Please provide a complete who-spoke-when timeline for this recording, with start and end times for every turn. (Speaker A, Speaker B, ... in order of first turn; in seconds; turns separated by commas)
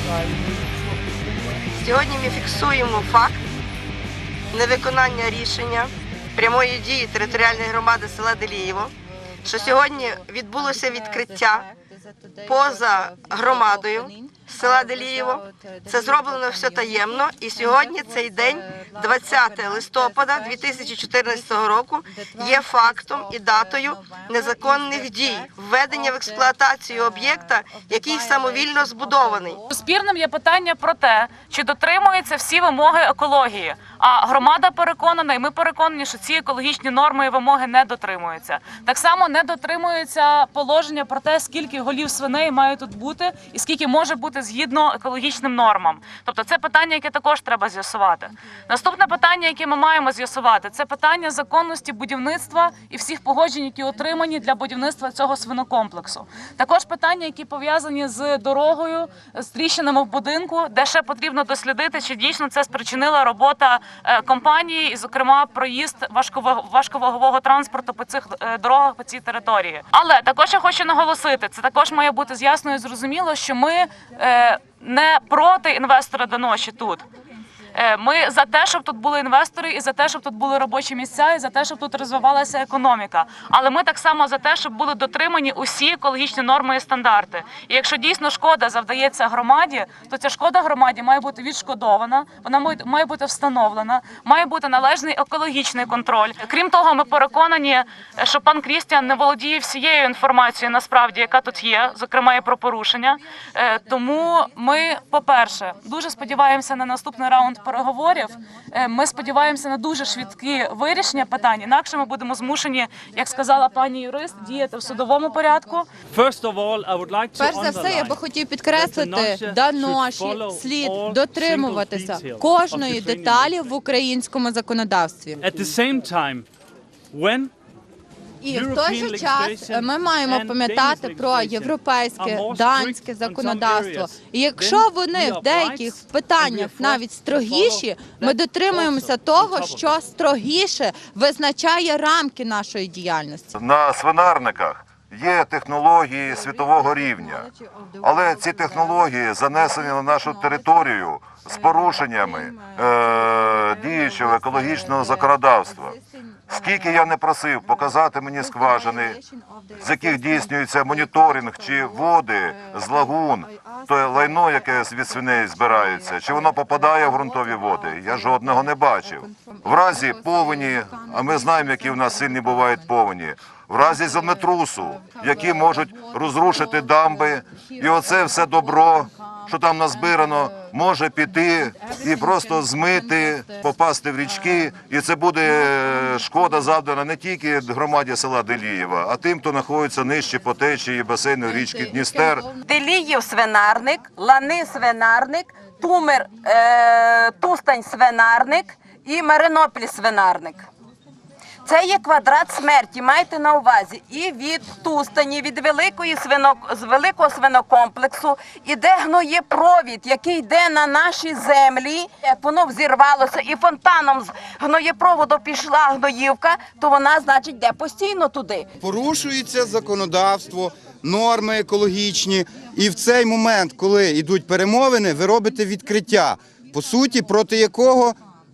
Speaker A: 1.8-3.4, Speaker A: 4.5-8.9, Speaker A: 9.4-11.7, Speaker A: 12.5-29.6, Speaker B: 29.7-77.0, Speaker B: 77.7-115.9, Speaker C: 116.0-123.7, Speaker D: 117.3-125.5, Speaker C: 125.4-126.5, Speaker C: 127.1-127.5, Speaker D: 128.4-143.5, Speaker C: 128.4-139.9, Speaker E: 143.5-147.5, Speaker E: 148.0-156.0, Speaker E: 156.5-159.2, Speaker E: 159.8-192.5, Speaker F: 192.5-200.7, Speaker F: 201.6-218.7, Speaker G: 218.8-228.2